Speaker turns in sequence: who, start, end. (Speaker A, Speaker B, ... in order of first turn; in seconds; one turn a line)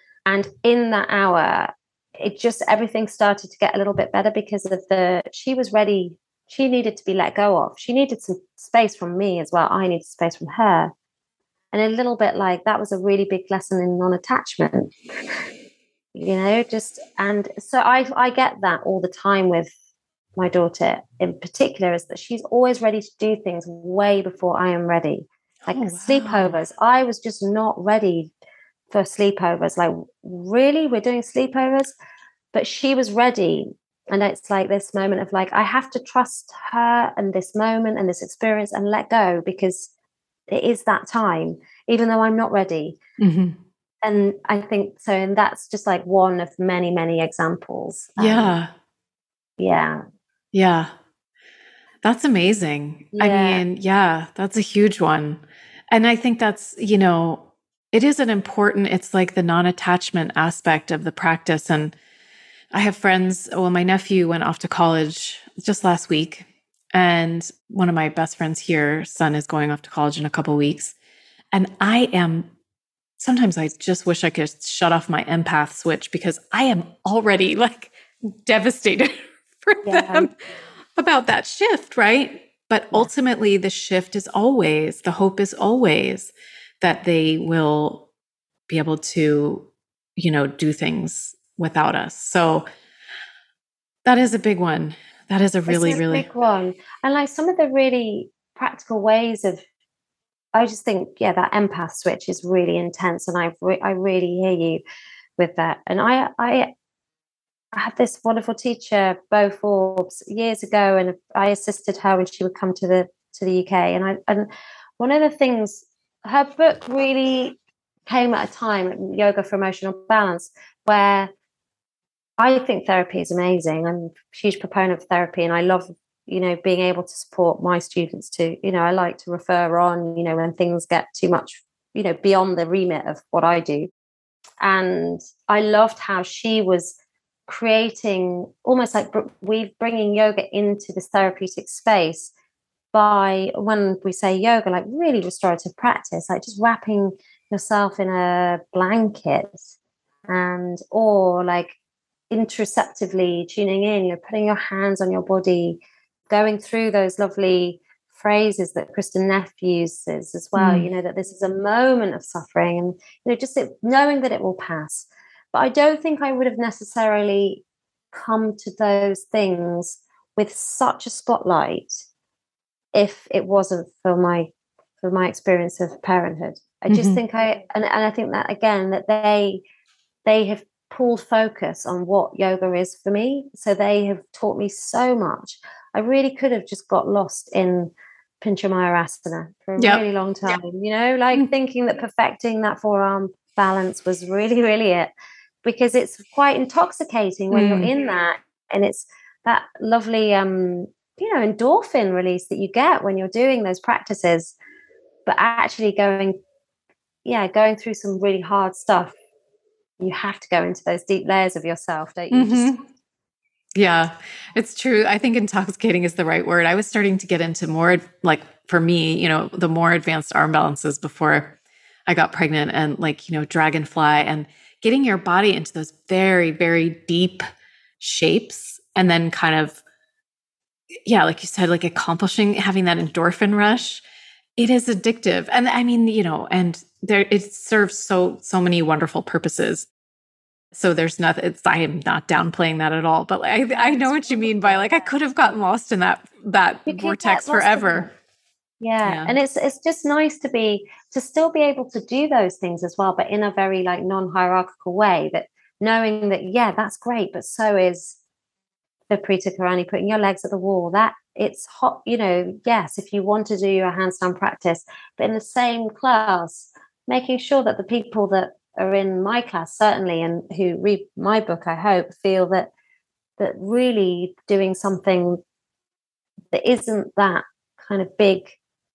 Speaker A: 0.3-10.9
Speaker A: 11.7-14.9
Speaker A: 16.1-19.7
Speaker A: 20.4-28.3
Speaker B: 25.7-26.5
Speaker A: 28.9-31.9
Speaker A: 32.5-39.9
Speaker A: 40.5-43.0
Speaker B: 43.2-43.6
Speaker A: 44.0-48.5
Speaker B: 48.2-48.7
Speaker A: 49.6-50.0
Speaker B: 50.5-50.9
Speaker B: 52.0-61.9
Speaker A: 53.1-53.6
Speaker B: 62.7-71.0
Speaker B: 71.5-72.5
Speaker B: 73.2-80.3
Speaker A: 79.8-80.3
Speaker B: 81.0-88.1
Speaker B: 88.7-92.7
Speaker B: 94.0-96.2
Speaker A: 95.7-99.6
Speaker A: 100.5-104.8
Speaker A: 105.4-106.7
Speaker A: 107.7-121.3
Speaker A: 122.4-133.9
Speaker A: 134.6-142.3
Speaker A: 142.9-149.7
Speaker A: 150.3-151.8
Speaker A: 152.3-172.0
Speaker B: 160.6-160.9
Speaker A: 172.9-179.6
Speaker B: 176.9-177.2
Speaker A: 180.2-195.1
Speaker B: 189.8-190.0
Speaker A: 195.6-204.5
Speaker B: 197.5-197.9
Speaker A: 205.2-206.3
Speaker A: 207.2-209.1
Speaker A: 210.0-212.8
Speaker B: 212.3-212.8
Speaker B: 213.8-221.6
Speaker B: 222.1-227.4
Speaker B: 228.0-229.8
Speaker B: 231.1-234.0
Speaker B: 234.6-239.9
Speaker B: 240.7-248.1
Speaker A: 243.7-245.1
Speaker A: 246.9-248.1
Speaker A: 248.8-258.2
Speaker B: 249.0-249.3
Speaker A: 259.1-272.7
Speaker A: 273.4-275.4
Speaker A: 276.5-278.6